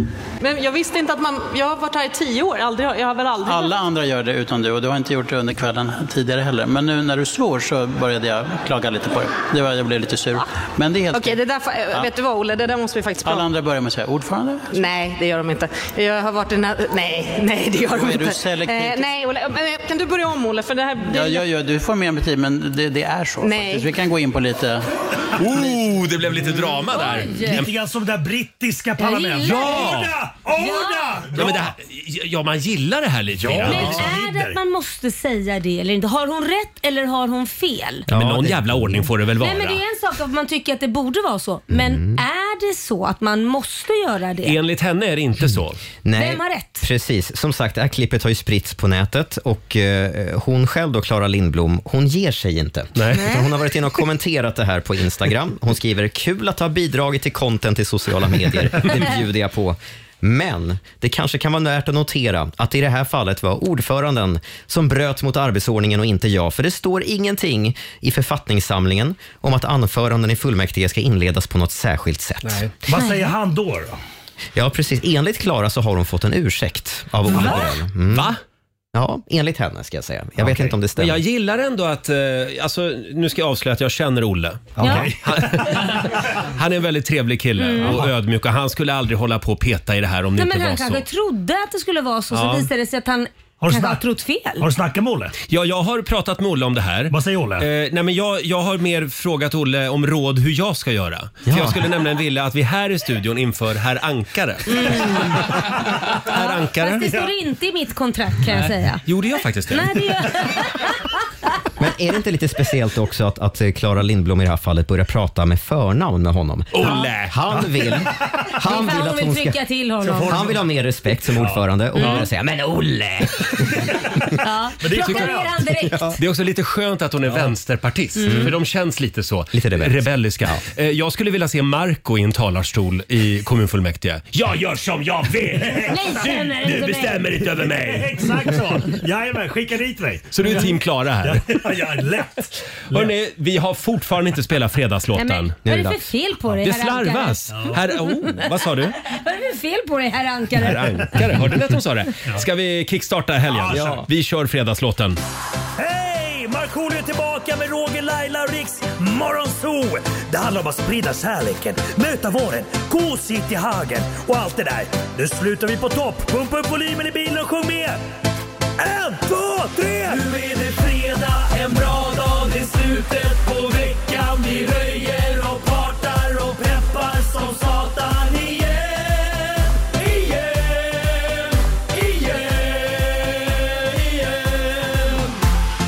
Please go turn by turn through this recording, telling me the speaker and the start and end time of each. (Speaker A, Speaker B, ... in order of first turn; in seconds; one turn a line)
Speaker A: 0.4-3.8
Speaker B: 3.4-11.4
Speaker A: 11.1-13.5
Speaker B: 13.2-14.7
Speaker A: 14.7-21.4
Speaker B: 17.9-19.1
Speaker B: 21.1-24.8
Speaker A: 23.4-23.9
Speaker C: 25.4-27.7
Speaker D: 26.9-27.6
Speaker E: 27.4-31.7
Speaker D: 29.0-30.0
Speaker C: 29.4-30.1
Speaker D: 30.6-31.2
Speaker C: 31.3-34.1
Speaker E: 33.3-34.6
Speaker D: 33.6-38.0
Speaker F: 38.1-39.1
Speaker C: 38.1-39.8
Speaker D: 39.4-44.6
Speaker F: 41.7-42.2
Speaker C: 44.4-45.8
Speaker F: 46.0-72.6
Speaker D: 46.1-46.9
Speaker C: 53.0-53.2
Speaker C: 72.4-72.7
Speaker E: 72.9-73.9
Speaker D: 72.9-73.3
Speaker F: 74.5-78.3
Speaker E: 77.3-77.6
Speaker C: 78.1-78.4
Speaker F: 78.9-81.2
Speaker C: 81.0-91.0
Speaker E: 84.8-86.0
Speaker D: 84.8-85.1
Speaker D: 87.6-88.0
Speaker E: 87.8-88.1
Speaker D: 90.4-94.7
Speaker C: 92.3-92.7
Speaker E: 93.6-94.0
Speaker E: 94.6-95.3
Speaker C: 95.5-105.5
Speaker E: 97.1-97.7
Speaker F: 101.5-101.8
Speaker D: 104.7-105.5
Speaker C: 106.1-107.2
Speaker D: 106.2-109.0
Speaker C: 109.0-109.9
Speaker D: 109.7-111.2
Speaker F: 111.8-119.6
Speaker C: 116.7-117.4
Speaker D: 118.6-120.5
Speaker E: 120.0-120.7
Speaker F: 120.1-123.8
Speaker E: 121.3-121.6
Speaker D: 122.0-122.3
Speaker C: 122.0-122.2
Speaker D: 124.4-126.2
Speaker E: 124.8-125.5
Speaker C: 125.0-125.3
Speaker F: 125.9-126.1
Speaker C: 126.2-138.2
Speaker D: 128.2-128.5
Speaker F: 128.2-128.6
Speaker F: 129.5-130.6
Speaker E: 135.4-136.5
Speaker D: 135.9-137.4
Speaker E: 137.4-143.1
Speaker C: 140.3-141.4
Speaker C: 142.9-145.6
Speaker D: 145.2-151.1
Speaker F: 145.7-146.0
Speaker C: 146.6-149.0
Speaker E: 147.5-147.8
Speaker C: 150.6-155.2
Speaker E: 153.5-154.0
Speaker E: 155.8-168.0
Speaker E: 168.8-180.7
Speaker E: 181.9-182.7